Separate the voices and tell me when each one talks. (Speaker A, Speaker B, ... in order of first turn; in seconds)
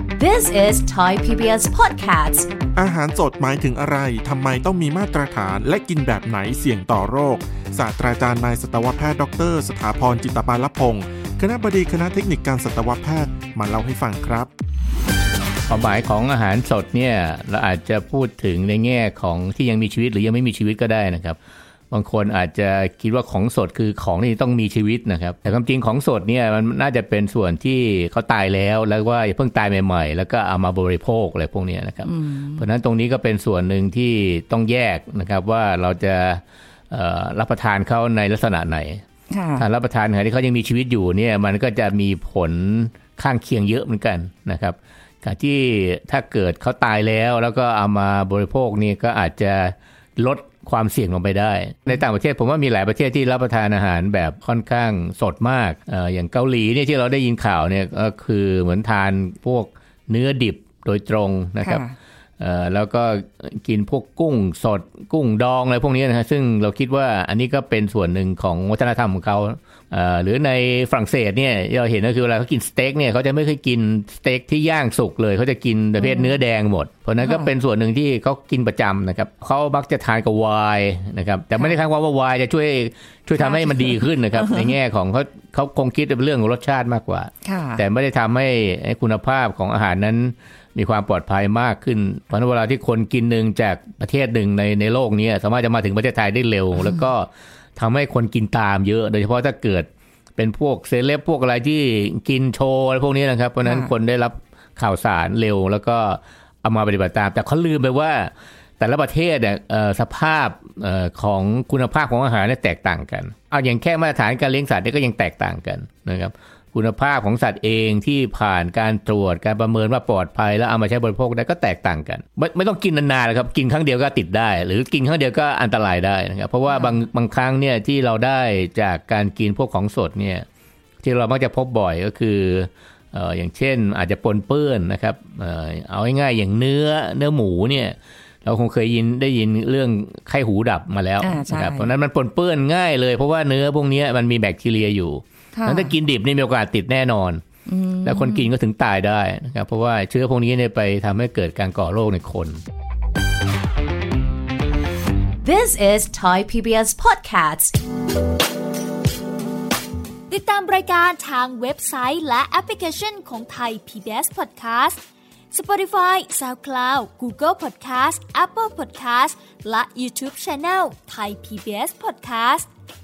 Speaker A: 0.1-2.5, 155.4-157.8
Speaker B: 2.8-14.5
Speaker C: 15.7-21.4, 21.9-39.0, 39.6-61.8, 62.4-130.4, 131.0-147.4, 148.1-152.6
Speaker D: 32.0-32.6, 39.3-39.6, 61.6-61.9, 76.0-76.4, 77.2-77.5, 83.4-84.7, 87.4-87.8, 103.6-103.9, 126.7-127.0, 141.2-141.9, 145.6-145.9, 147.7-148.5
Speaker E: 160.3-172.7